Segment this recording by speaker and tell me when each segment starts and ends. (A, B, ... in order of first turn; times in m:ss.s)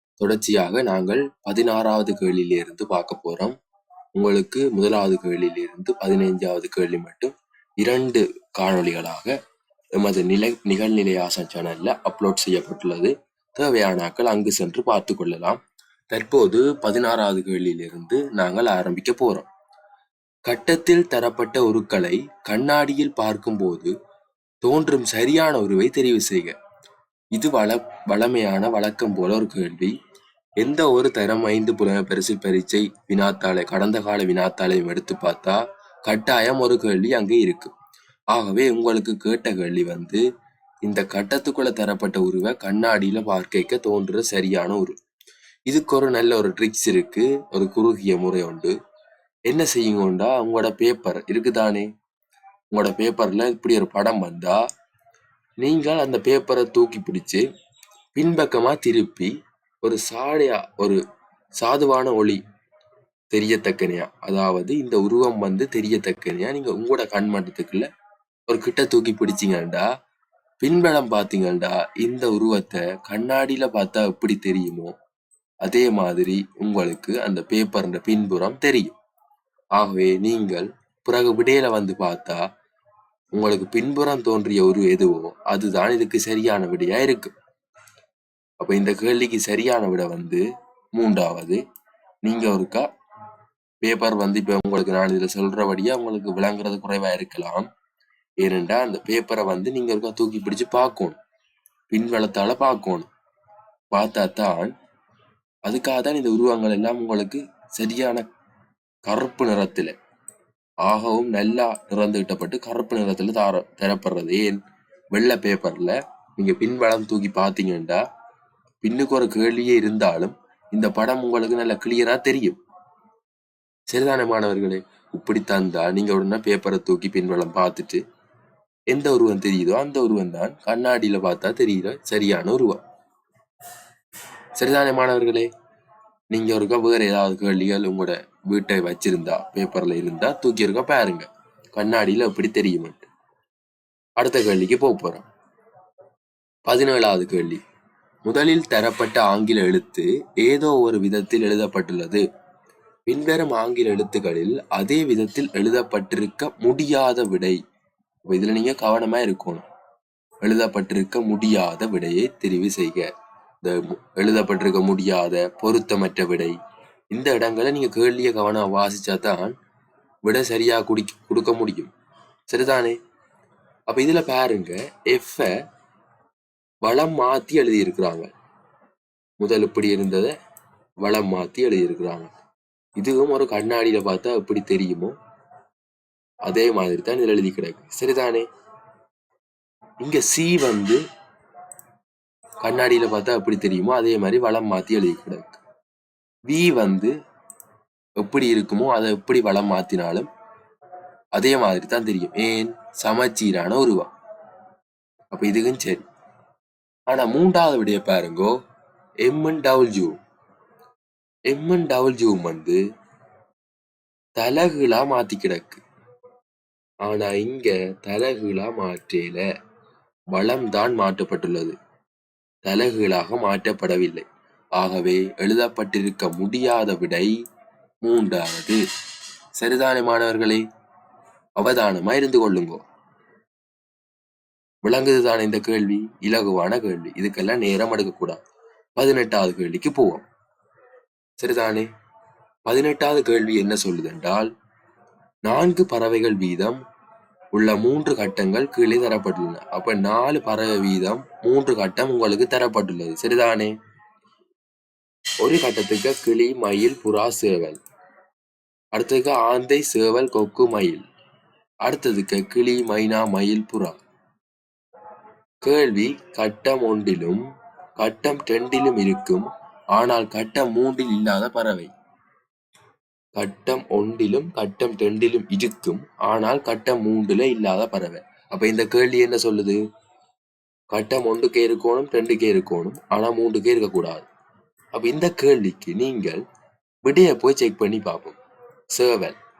0:00.2-0:03.6 A
0:04.2-0:09.3 A
0:10.0-0:15.6 A
0:16.1-0:19.5 A
0:20.5-0:23.9 A
0:24.6-0:26.6 A
0:27.4-0:29.9 A
0:30.6-0:37.7 A
0:38.3-0:40.2 A
0:40.8-0:45.0 A
0:45.7-0:48.8 A
0:49.5-0:51.9 A
0:52.7-0:54.6 A
0:55.6-0:57.4 A
0:58.2-0:59.3 A
0:59.8-1:01.0 A
1:01.6-1:02.4 A
1:03.3-1:07.9 A
1:08.5-1:09.9 A
1:10.6-1:14.9 A
1:15.6-1:19.0 A
1:19.8-1:22.4 A
1:23.4-1:27.3 A
1:28.6-1:30.4 A
1:31.0-1:31.6 A
1:32.2-1:32.9 A
1:33.8-1:37.7 A
1:38.4-1:41.2 A
1:41.9-1:43.1 A
1:43.9-1:44.7 A
1:45.7-1:48.2 A
1:49.1-1:49.9 A
1:50.9-1:54.6 A
1:55.1-1:58.0 A
1:58.8-2:02.6 A
2:03.9-2:08.0 A
2:08.9-2:12.8 A
2:14.6-2:15.5 A
2:16.3-2:23.1 A
2:24.2-2:25.2 A
2:26.7-2:27.6 A
2:28.2-2:32.2 A
2:33.1-2:37.6 A
2:38.3-2:39.6 A
2:40.4-2:43.1 A
2:43.6-2:46.6 A
2:47.1-2:49.6 A
2:50.2-2:51.9 A
2:52.5-2:53.0 A
2:53.9-2:55.6 A
2:56.8-2:58.3 A
2:59.4-3:00.3 A
3:01.0-3:02.3 A
3:03.0-3:05.2 A
3:06.5-3:08.5 A
3:10.0-3:11.0 A
3:12.6-3:15.6 A
3:16.5-3:17.1 A
3:18.2-3:20.3 A
3:21.4-3:24.1 A
3:25.3-3:26.0 A
3:27.1-3:28.6 A
3:29.2-3:30.2 A
3:31.5-3:32.8 A
3:34.4-3:35.8 A
3:37.0-3:39.4 A
3:40.3-3:41.8 A
3:42.6-3:47.4 A
3:48.0-3:48.8 A
3:49.6-3:50.6 A
3:51.6-3:52.8 A
3:54.8-3:58.4 A
3:59.0-4:00.2 A
4:01.4-4:01.9 A
4:02.7-4:04.5 A
4:05.5-4:06.8 A
4:07.5-4:13.8 A
4:15.4-4:17.8 A
4:18.9-4:21.0 A
4:21.8-4:24.0 A
4:25.6-4:27.4 A
4:28.0-4:31.9 A
4:33.4-4:39.8 A
4:40.9-4:44.3 A
4:45.0-4:46.4 A
4:47.0-4:48.4 A
4:48.9-4:49.4 A